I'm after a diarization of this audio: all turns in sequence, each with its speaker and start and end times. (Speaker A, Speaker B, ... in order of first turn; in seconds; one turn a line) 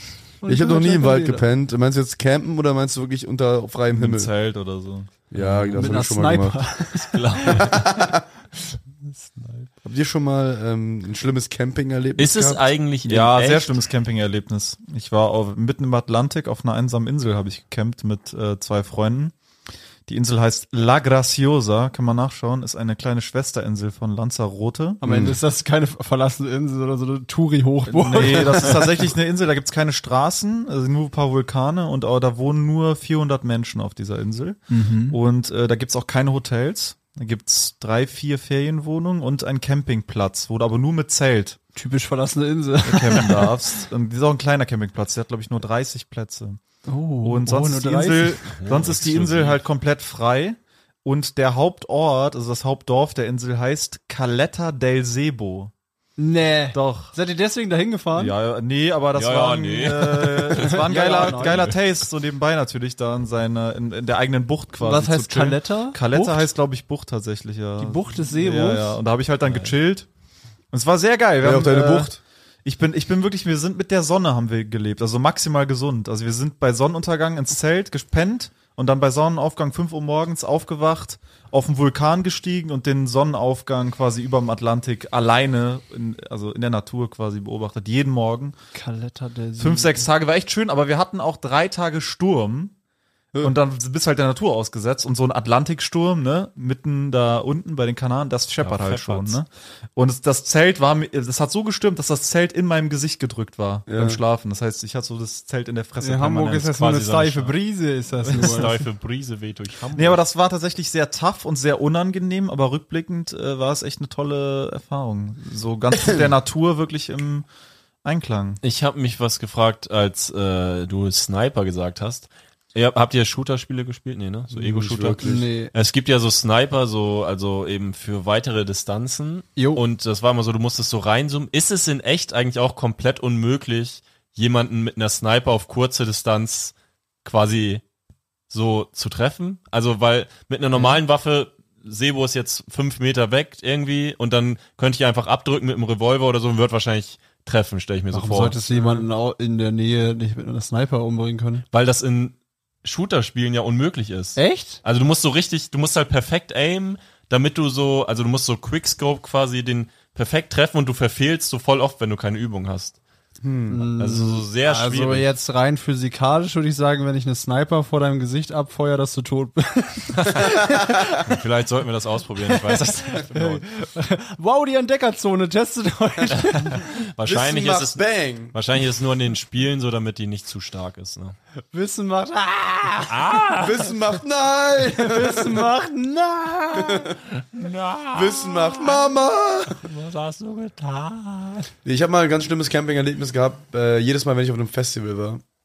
Speaker A: 0.4-1.5
Speaker B: 0.5-4.3
Speaker C: 3.9-5.1
Speaker B: 5.3-6.7
Speaker A: 5.6-7.7
Speaker D: 6.9-8.0
Speaker B: 7.6-8.2
Speaker D: 9.2-9.7
Speaker B: 9.8-12.7
Speaker D: 12.2-13.8
Speaker C: 13.1-19.3
Speaker C: 20.1-25.0
Speaker A: 25.0-28.9
Speaker B: 25.0-25.4
Speaker C: 27.9-41.6
Speaker A: 34.7-35.2
Speaker A: 41.7-43.6
Speaker C: 42.8-46.6
Speaker A: 46.9-48.5
Speaker C: 47.2-55.7
Speaker D: 48.4-49.6
Speaker A: 56.2-58.4
Speaker C: 56.7-57.1
Speaker C: 58.1-70.1
Speaker D: 59.1-61.8
Speaker A: 60.5-61.8
Speaker A: 64.8-66.5
Speaker A: 67.8-69.0
Speaker D: 69.5-69.7
Speaker C: 70.7-72.1
Speaker B: 71.4-72.2
Speaker C: 72.7-88.5
Speaker A: 88.7-90.1
Speaker C: 89.6-92.7
Speaker C: 93.4-106.8
Speaker D: 98.6-99.4
Speaker B: 103.9-104.2
Speaker A: 106.0-108.8
Speaker D: 106.8-107.6
Speaker D: 108.2-110.2
Speaker C: 108.3-108.6
Speaker C: 110.0-117.5
Speaker C: 118.0-118.6
Speaker D: 118.6-137.8
Speaker B: 124.5-125.5
Speaker A: 125.2-125.7
Speaker A: 129.6-129.8
Speaker D: 138.5-149.1
Speaker A: 140.7-141.0
Speaker A: 148.1-151.7
Speaker D: 151.7-163.0
Speaker A: 154.4-154.8
Speaker B: 163.4-163.8
Speaker A: 163.7-171.2
Speaker D: 164.0-165.3
Speaker D: 170.2-170.5
Speaker D: 171.2-173.7
Speaker A: 172.4-176.9
Speaker D: 176.4-181.4
Speaker B: 177.2-178.6
Speaker A: 181.7-183.4
Speaker D: 183.1-183.9
Speaker B: 183.6-185.7
Speaker A: 184.8-187.1
Speaker B: 186.7-187.2
Speaker D: 187.4-188.8
Speaker B: 188.1-189.8
Speaker D: 189.8-191.6
Speaker A: 191.3-191.7
Speaker B: 191.8-195.4